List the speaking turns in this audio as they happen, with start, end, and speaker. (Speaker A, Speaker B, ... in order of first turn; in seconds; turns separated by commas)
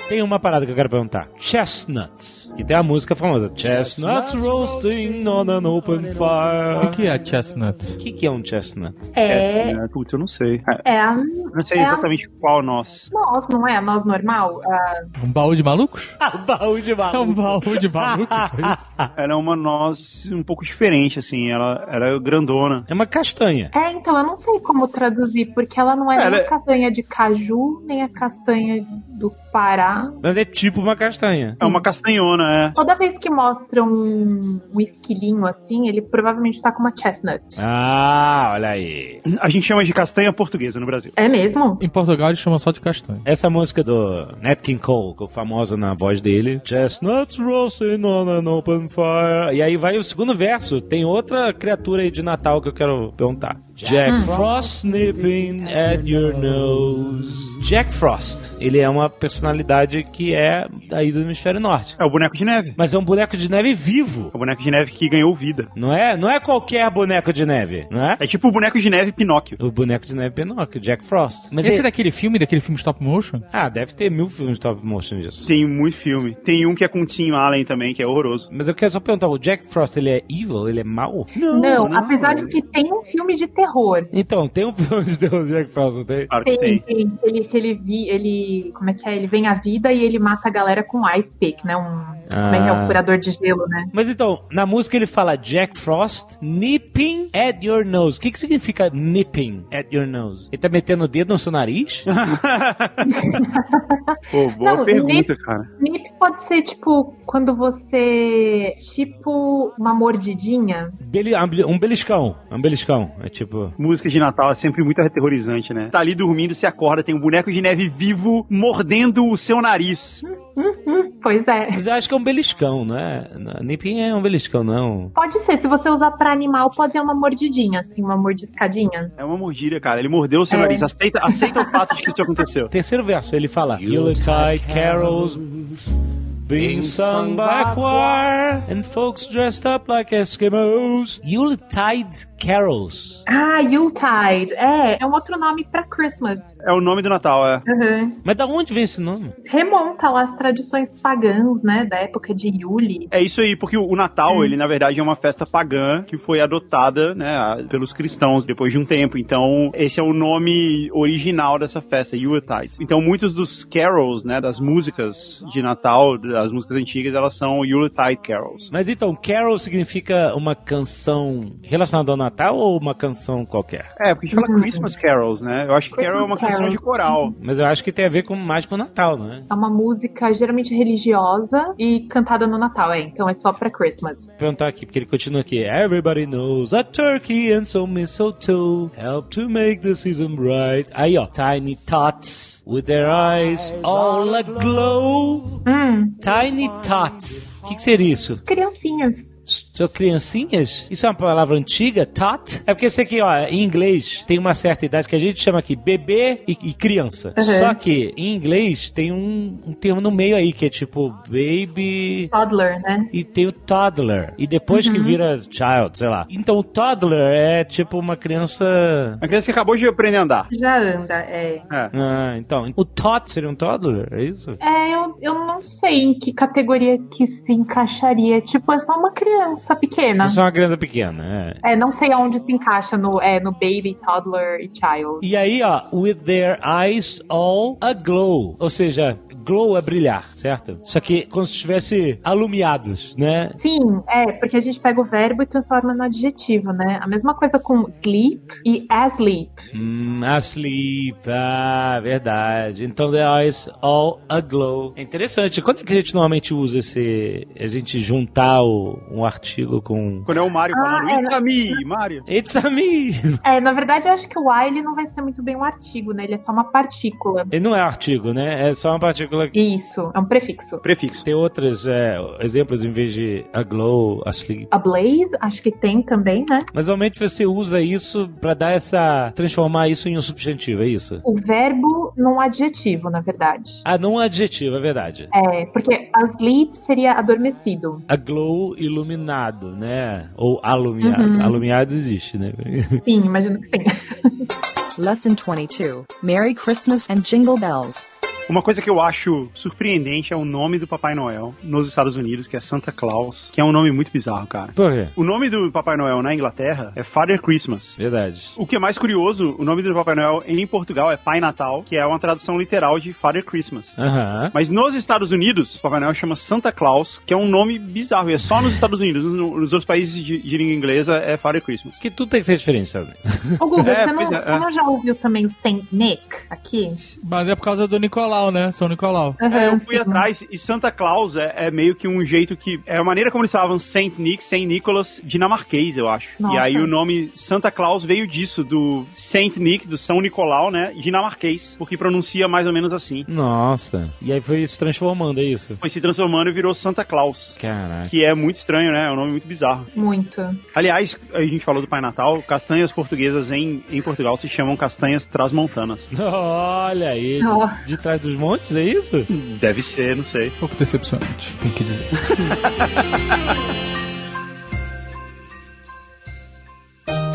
Speaker A: 0.1-7.0, Speaker B: 6.8-8.0, Speaker A: 8.0-9.2, Speaker C: 9.2-9.8, Speaker D: 9.3-10.8, Speaker C: 10.8-12.1, Speaker D: 11.5-13.1, Speaker C: 13.1-15.1, Speaker B: 15.2-16.2, Speaker A: 16.2-19.1, Speaker B: 17.1-18.8, Speaker D: 19.2-22.9, Speaker A: 22.9-23.7, Speaker C: 23.7-30.2, Speaker D: 26.1-26.5, Speaker A: 30.2-31.6, Speaker D: 31.6-32.8, Speaker C: 32.8-37.6, Speaker A: 37.6-39.2, Speaker D: 39.3-41.1, Speaker C: 41.2-41.8, Speaker B: 41.8-43.2, Speaker A: 43.2-62.0, Speaker C: 54.0-54.3, Speaker D: 62.0-62.8, Speaker A: 62.8-64.3, Speaker D: 64.3-65.7, Speaker A: 65.8-68.2, Speaker D: 68.2-69.6, Speaker A: 69.6-71.9, Speaker B: 71.6-73.5, Speaker A: 73.5-75.5, Speaker D: 75.4-78.5, Speaker A: 78.5-81.9, Speaker C: 81.5-84.1, Speaker D: 81.8-82.5, Speaker A: 84.1-86.3, Speaker D: 86.3-86.8, Speaker C: 86.5-93.9, Speaker A: 92.3-93.0, Speaker A: 93.9-102.1, Speaker D: 102.1-103.4, Speaker C: 103.1-111.0, Speaker D: 104.3-105.7, Speaker A: 111.0-113.8, Speaker D: 113.8-120.2, Speaker C: 120.2-121.8, Speaker A: 121.7-125.1, Speaker C: 125.2-129.1, Speaker D: 129.2-132.7, Speaker C: 130.5-131.8, Speaker A: 132.7-135.5, Speaker A: 136.4-143.2, Speaker C: 143.3-146.6, Speaker D: 146.6-147.7, Speaker C: 147.7-148.2, Speaker A: 148.2-149.4, Speaker C: 149.4-153.1, Speaker D: 153.1-168.7, Speaker C: 154.3-154.6, Speaker A: 168.7-173.9, Speaker D: 174.0-177.3, Speaker C: 174.3-174.9, Speaker C: 175.9-177.3, Speaker A: 177.4-179.5, Speaker C: 179.5-184.4, Speaker A: 184.4-195.6, Speaker C: 195.7-196.2, Speaker A: 196.2-198.4, Speaker C: 198.5-199.4, Speaker A: 199.5-212.3, Speaker C: 207.4-207.8, Speaker C: 212.3-213.1, Speaker A: 213.1-219.2, Speaker C: 214.7-215.2, Speaker D: 219.2-220.5, Speaker C: 220.5-221.7, Speaker A: 221.9-224.6, Speaker C: 224.6-230.4, Speaker A: 230.2-231.6, Speaker C: 231.6-235.3, Speaker A: 235.2-243.6, Speaker C: 243.6-249.7, Speaker A: 249.7-260.3, Speaker D: 260.3-262.2, Speaker C: 260.7-261.8, Speaker A: 262.3-263.4, Speaker C: 263.4-267.5, Speaker A: 267.5-269.6, Speaker C: 269.5-270.8, Speaker D: 270.8-271.2, Speaker A: 271.2-274.7, Speaker C: 274.7-276.7, Speaker A: 276.7-281.2, Speaker C: 281.2-283.8, Speaker A: 283.9-285.3, Speaker C: 285.3-288.0, Speaker A: 288.1-293.0, Speaker C: 291.0-291.6, Speaker C: 293.0-294.5, Speaker E: 295.0-298.1, Speaker D: 298.5-308.0, Speaker A: 304.8-305.1, Speaker A: 308.0-308.6, Speaker D: 308.6-314.0, Speaker A: 314.0-314.5, Speaker D: 314.5-322.0, Speaker A: 322.0-323.6, Speaker C: 323.6-327.0, Speaker D: 323.8-324.6, Speaker B: 327.2-329.4, Speaker C: 329.4-330.3, Speaker D: 329.5-343.3, Speaker C: 336.4-336.9, Speaker A: 343.3-345.8, Speaker D: 345.8-349.9, Speaker A: 347.6-348.1, Speaker C: 349.9-350.6, Speaker D: 350.7-356.1, Speaker A: 356.1-359.3, Speaker C: 357.4-357.8, Speaker D: 359.3-360.6, Speaker B: 360.6-362.1